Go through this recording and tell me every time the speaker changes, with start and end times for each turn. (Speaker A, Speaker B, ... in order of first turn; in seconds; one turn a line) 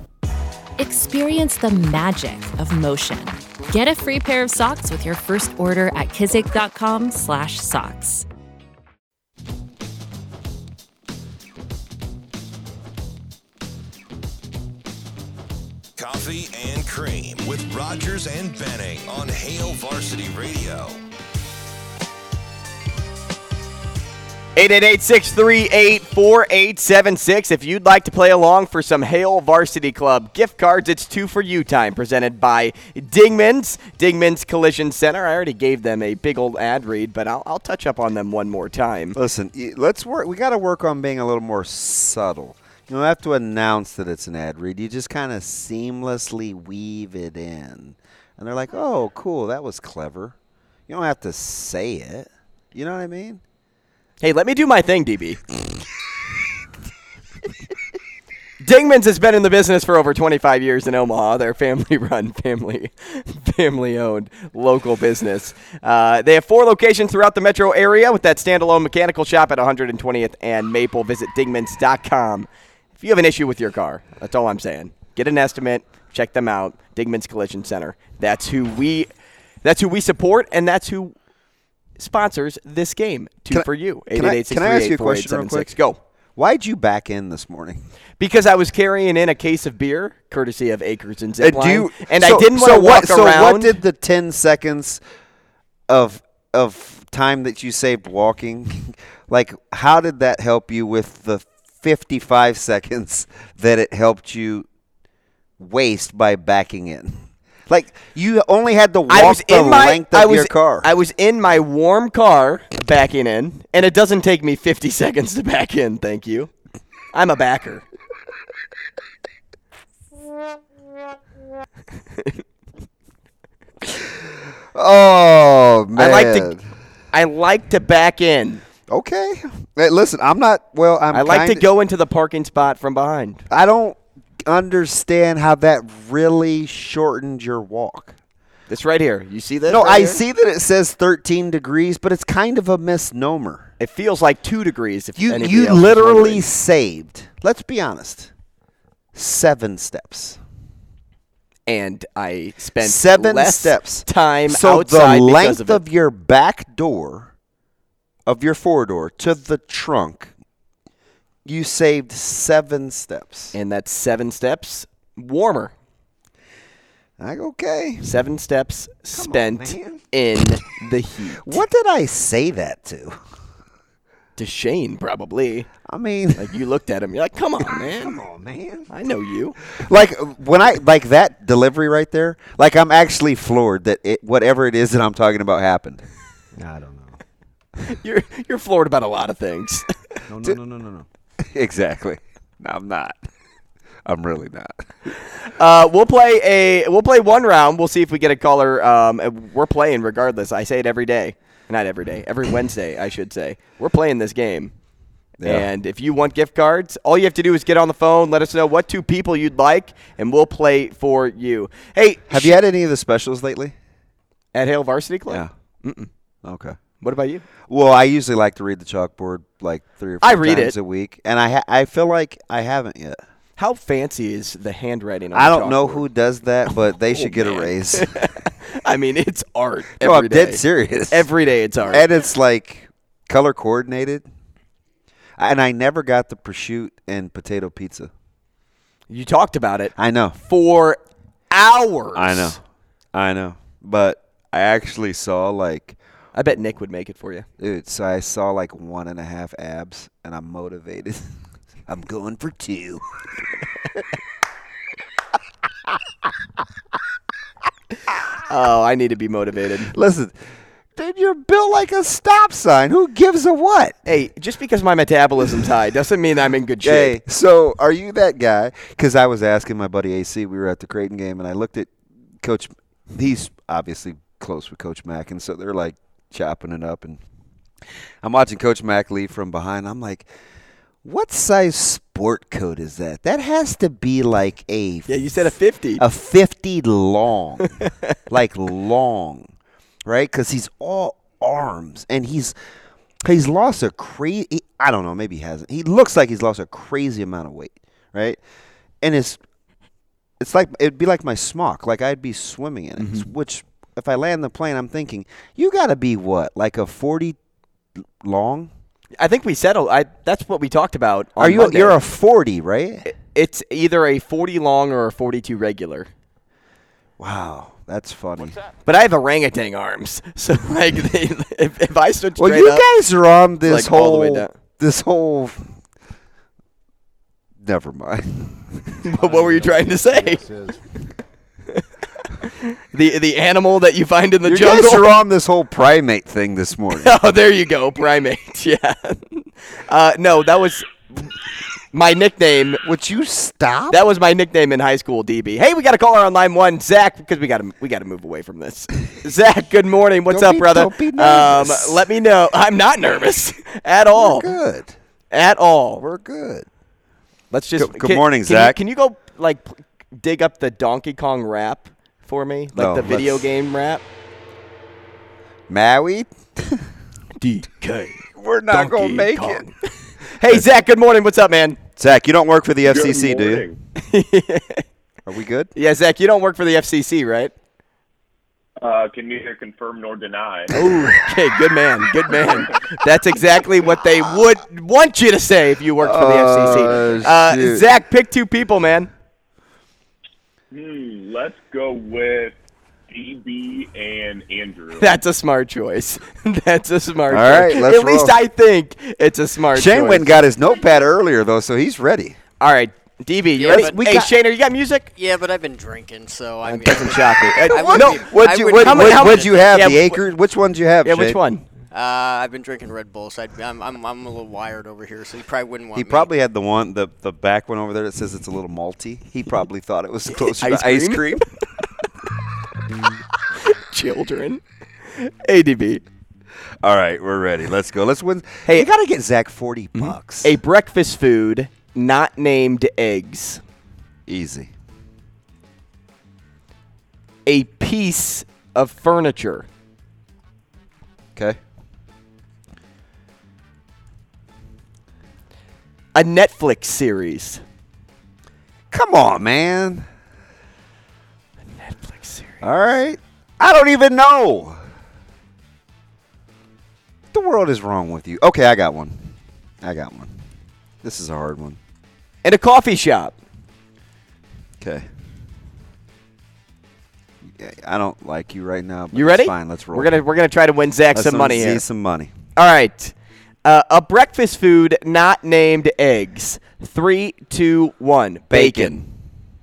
Speaker A: 0.8-8.2
Speaker B: 16.0-20.9
Speaker C: 24.5-39.2
Speaker D: 39.1-50.3
Speaker D: 50.9-53.4
Speaker C: 54.2-55.4
Speaker C: 58.6-79.1
Speaker C: 79.6-81.1
Speaker C: 82.0-86.0
Speaker D: 83.5-85.7
Speaker D: 86.3-87.8
Speaker C: 88.2-93.8
Speaker D: 91.4-95.0
Speaker D: 95.9-104.7
Speaker D: 105.6-110.9
Speaker C: 109.1-116.5
Speaker C: 117.1-117.8
Speaker D: 124.7-126.6
Speaker C: 125.9-126.5
Speaker C: 127.1-128.6
Speaker D: 128.9-131.6
Speaker C: 131.1-133.4
Speaker D: 133.5-138.1
Speaker C: 138.7-140.2
Speaker D: 139.7-143.7
Speaker C: 143.8-146.5
Speaker D: 145.2-148.3
Speaker D: 149.1-150.4
Speaker C: 151.7-155.8
Speaker D: 152.8-157.3
Speaker D: 158.2-160.3
Speaker D: 161.4-163.5
Speaker C: 163.5-165.7
Speaker D: 167.2-168.1
Speaker C: 168.0-171.6
Speaker D: 169.1-170.0
Speaker D: 171.4-173.2
Speaker C: 174.3-175.7
Speaker D: 175.9-176.6
Speaker C: 176.3-178.2
Speaker D: 177.6-178.9
Speaker C: 178.9-179.6
Speaker D: 179.7-186.0
Speaker D: 186.6-187.2
Speaker C: 187.8-189.9
Speaker D: 190.3-193.2
Speaker D: 194.0-194.8
Speaker C: 195.2-204.7
Speaker D: 205.4-205.7
Speaker C: 205.4-212.6
Speaker D: 212.3-213.7
Speaker C: 214.5-216.1
Speaker D: 216.4-216.8
Speaker C: 217.0-217.4
Speaker D: 217.7-223.2
Speaker C: 220.2-220.8
Speaker C: 223.6-226.1
Speaker D: 225.3-228.1
Speaker C: 226.7-232.1
Speaker D: 230.0-231.3
Speaker D: 231.8-234.2
Speaker D: 235.4-238.1
Speaker C: 239.1-242.6
Speaker D: 239.9-240.4
Speaker D: 242.1-242.6
Speaker D: 243.1-246.0
Speaker C: 246.3-247.4
Speaker D: 247.6-251.2
Speaker D: 251.9-253.0
Speaker C: 258.4-259.9
Speaker D: 259.9-260.3
Speaker D: 260.9-263.9
Speaker C: 264.0-267.2
Speaker D: 266.8-271.9
Speaker D: 272.4-277.2
Speaker D: 278.2-280.3
Speaker D: 281.0-287.8
Speaker C: 285.1-286.0
Speaker D: 288.3-289.5
Speaker D: 290.1-292.6
Speaker D: 293.2-298.4
Speaker D: 299.0-299.4
Speaker D: 300.4-307.4
Speaker C: 303.0-303.3
Speaker D: 308.2-308.7
Speaker C: 309.2-312.0
Speaker D: 311.4-313.1
Speaker C: 313.1-316.1
Speaker D: 317.2-318.6
Speaker C: 318.8-322.9
Speaker D: 322.4-325.6
Speaker C: 323.6-324.5
Speaker D: 327.6-328.9
Speaker C: 329.0-330.7
Speaker C: 332.4-335.1
Speaker D: 334.4-337.1
Speaker C: 336.9-341.4
Speaker C: 341.9-342.8
Speaker D: 342.8-344.0
Speaker C: 343.9-354.5
Speaker D: 350.3-352.1
Speaker D: 354.1-354.9
Speaker C: 355.3-356.0
Speaker D: 356.0-356.7
Speaker C: 357.5-364.0
Speaker D: 357.8-358.8
Speaker D: 362.7-363.4
Speaker D: 365.7-366.8
Speaker C: 367.4-369.7
Speaker D: 368.4-369.7
Speaker C: 370.4-371.8
Speaker D: 370.4-370.7
Speaker D: 372.0-373.7
Speaker E: 372.8-373.8
Speaker C: 374.0-374.8
Speaker D: 375.2-375.7
Speaker C: 375.7-377.5
Speaker E: 378.8-380.8
Speaker C: 380.7-389.1
Speaker D: 386.0-387.9
Speaker E: 390.7-392.6
Speaker E: 393.1-395.2
Speaker C: 395.0-400.4
Speaker D: 397.3-398.4
Speaker D: 399.7-402.4
Speaker C: 402.6-405.1
Speaker F: 403.6-403.9
Speaker D: 403.7-404.3
Speaker F: 405.1-409.7
Speaker C: 406.6-410.2
Speaker D: 407.6-411.4
Speaker C: 411.0-411.6
Speaker F: 411.9-416.3
Speaker D: 415.9-421.4
Speaker C: 420.3-421.8
Speaker C: 423.5-426.0
Speaker D: 426.8-430.6
Speaker C: 429.9-433.6
Speaker D: 434.3-434.7
Speaker C: 437.4-439.6
Speaker C: 446.1-447.6
Speaker D: 448.9-450.1
Speaker C: 451.7-452.6
Speaker D: 452.6-454.8
Speaker D: 457.3-460.4
Speaker D: 461.0-461.8
Speaker C: 462.4-463.4
Speaker D: 464.8-465.1
Speaker D: 467.6-470.1
Speaker C: 469.1-471.8
Speaker D: 471.1-472.3
Speaker C: 472.5-479.1
Speaker D: 478.5-479.1